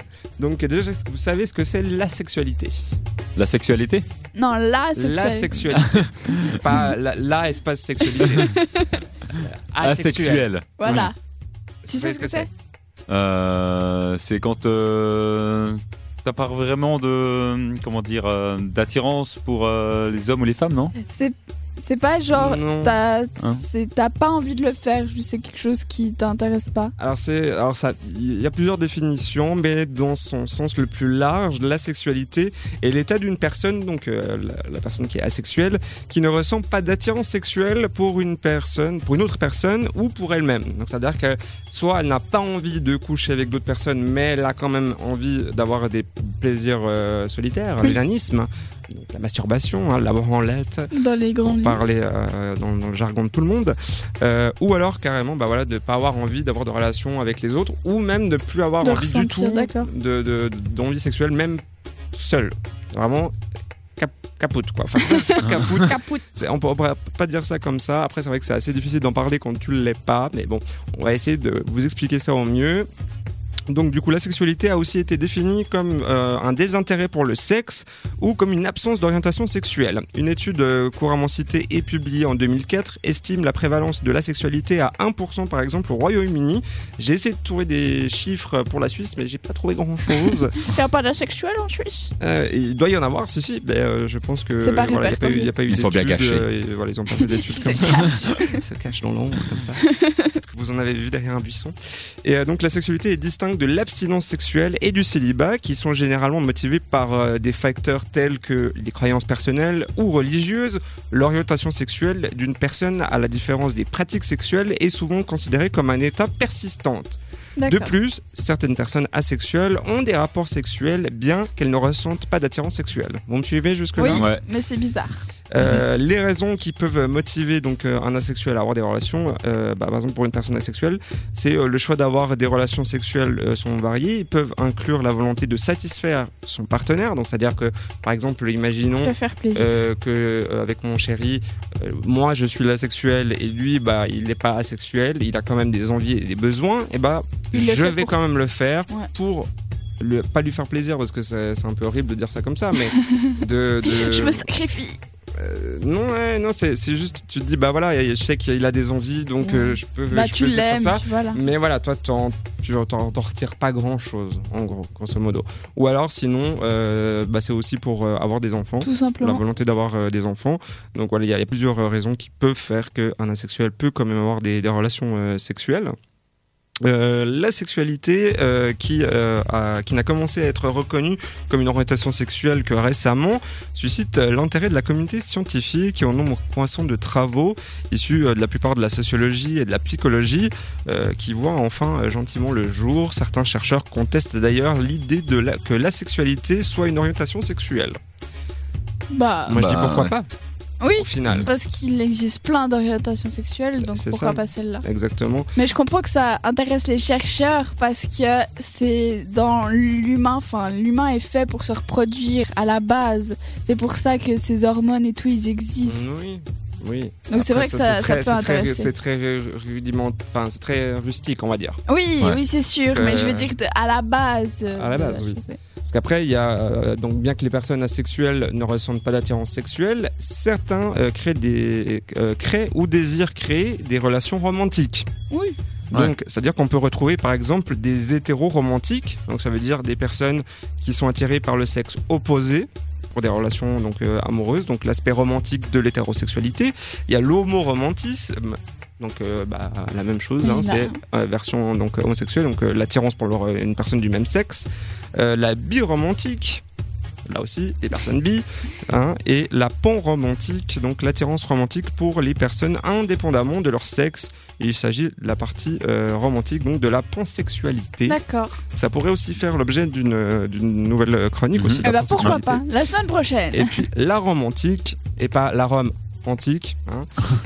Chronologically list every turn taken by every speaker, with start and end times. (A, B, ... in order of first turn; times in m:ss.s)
0:00.4-0:03.0 A
0:03.4-0:04.1 B
0:04.3-0:05.6 C
0:05.0-0:08.6 A
0:05.7-0:06.7 B
0:08.2-0:09.0 C
0:09.3-0:11.1 B
0:09.4-0:10.5 A
0:10.8-0:11.1 C
0:11.8-0:12.5 A
0:11.9-0:12.5 C
0:13.1-0:20.9 B
0:21.0-0:26.9 C
0:22.3-0:23.0 A
0:23.4-0:23.6 B
0:27.0-0:50.9 A
0:50.9-0:51.8 C
0:51.4-1:01.6 A
0:58.8-0:59.9 C
1:02.1-1:03.3 A
1:04.0-1:12.9 A
1:05.0-1:06.3 C
1:13.7-1:30.6 A
1:30.6-1:32.1 C
1:32.2-2:04.2 A
1:34.6-1:35.5 C
1:35.7-1:36.5 B
1:37.4-1:38.6 C
1:39.9-1:40.2 C
1:57.6-1:57.9 C
2:04.0-2:05.2 C
2:04.1-2:04.4 B
2:05.5-2:29.5 A
2:05.6-2:05.8 B
2:19.0-2:19.7 C
2:27.5-2:28.2 C
2:30.0-2:34.5 A
2:32.9-2:35.0 C
2:35.4-2:55.9 A
2:39.4-2:41.4 C
2:48.8-2:49.4 C
2:56.8-3:18.0 A
3:19.1-3:19.6 C
3:19.5-3:20.3 A
3:19.6-3:20.2 B
3:20.8-3:24.8 C
3:21.0-3:21.5 A
3:23.8-3:25.5 A
3:25.6-3:36.2 C
3:35.8-3:41.8 A
3:37.3-3:38.9 C
3:41.9-3:45.6 C
3:42.9-3:43.6 A
3:44.7-3:55.1 A
3:55.3-3:55.6 C
3:55.9-4:16.6 A
4:10.4-4:11.0 C
4:17.3-4:28.2 A
4:28.1-4:28.6 C
4:28.7-4:32.6 A
4:31.5-4:32.4 B
4:31.8-4:33.8 C
4:33.5-4:37.1 A